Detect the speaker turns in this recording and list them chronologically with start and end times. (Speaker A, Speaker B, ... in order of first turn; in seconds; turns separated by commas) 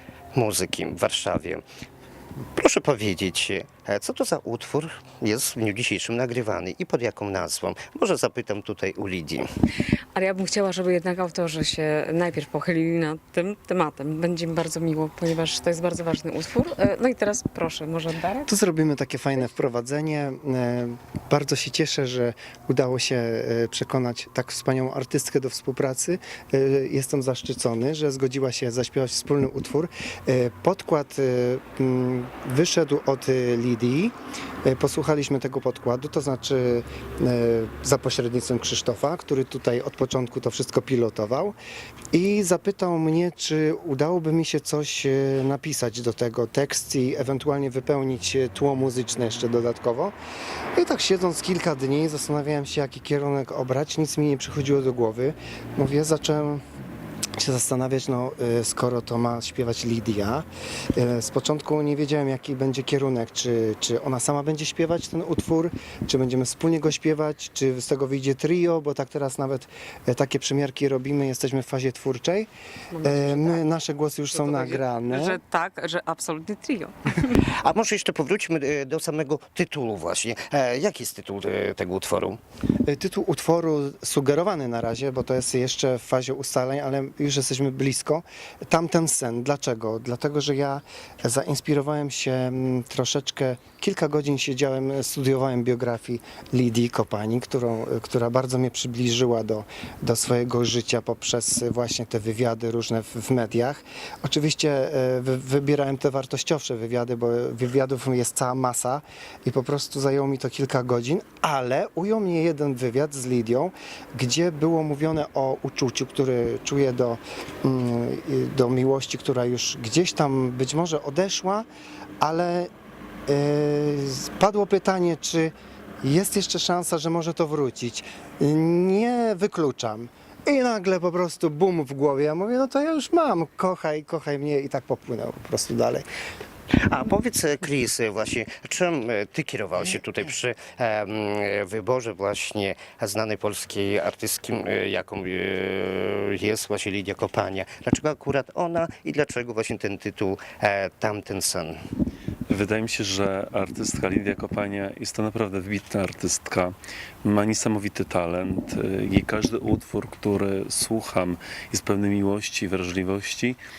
Speaker A: 0.3-1.6, Speaker A: 2.5-9.5, Speaker B: 10.1-18.5, Speaker C: 18.4-41.5, Speaker C: 42.1-50.1, Speaker C: 50.8-56.6, Speaker C: 57.4-72.5, Speaker B: 72.9-73.6, Speaker C: 73.0-75.4, Speaker B: 74.3-77.4, Speaker A: 77.4-82.4, Speaker C: 82.8-121.7, Speaker C: 122.2-122.7, Speaker C: 123.3-136.0, Speaker A: 136.8-151.8, Speaker D: 152.5-163.6